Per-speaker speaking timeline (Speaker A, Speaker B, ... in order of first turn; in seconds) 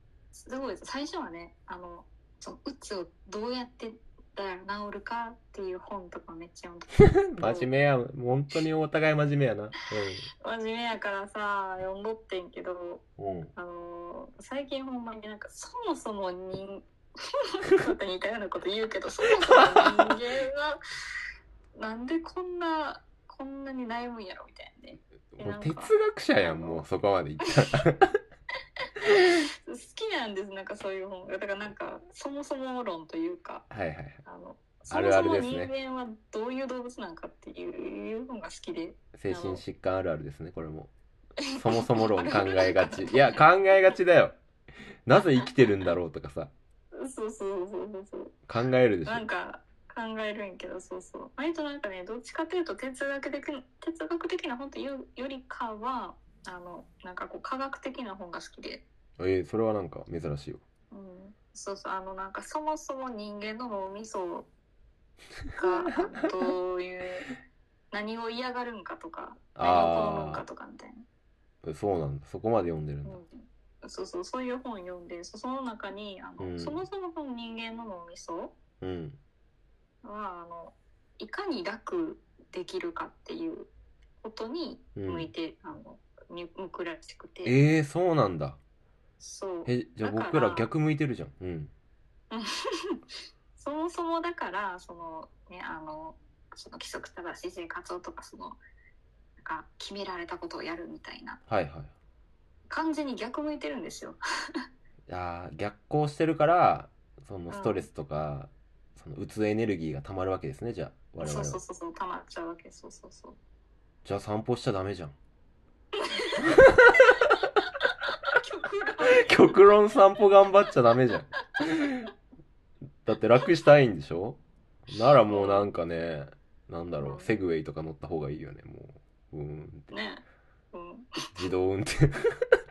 Speaker A: 0.3-7.7, 10.4-13.0, 13.6-20.8, 21.8-26.9, 29.0-33.7, 34.2-39.6, 41.4-43.4, 47.0-48.4, 49.1-58.8, 60.9-64.5, 65.6-67.3, 67.9-71.0, 73.0-78.5, 80.0-87.6, 89.2-90.7, 92.3-93.0, 93.6-98.6, 99.4-101.4, 102.7-104.2, 107.5-107.9, 111.2-113.4, 116.0-120.0, 125.3-125.7, 127.0-127.4, 129.9-131.3
Speaker B: 7.0-10.3, 13.2-13.5, 19.5-20.1, 25.4-28.2, 29.1-29.4, 33.7-34.2, 34.9-35.7, 39.1-40.9, 41.5-44.4, 45.1-46.5, 48.5-49.3, 59.2-60.6, 65.5-66.6, 69.5-70.5, 71.6-73.2, 76.4-76.8, 78.8-79.2, 85.0-85.3, 87.4-88.6, 89.7-91.7, 101.5-101.9, 105.1-111.6, 114.0-115.2, 116.4-117.3, 119.2-122.1, 123.0-129.9, 131.3-132.5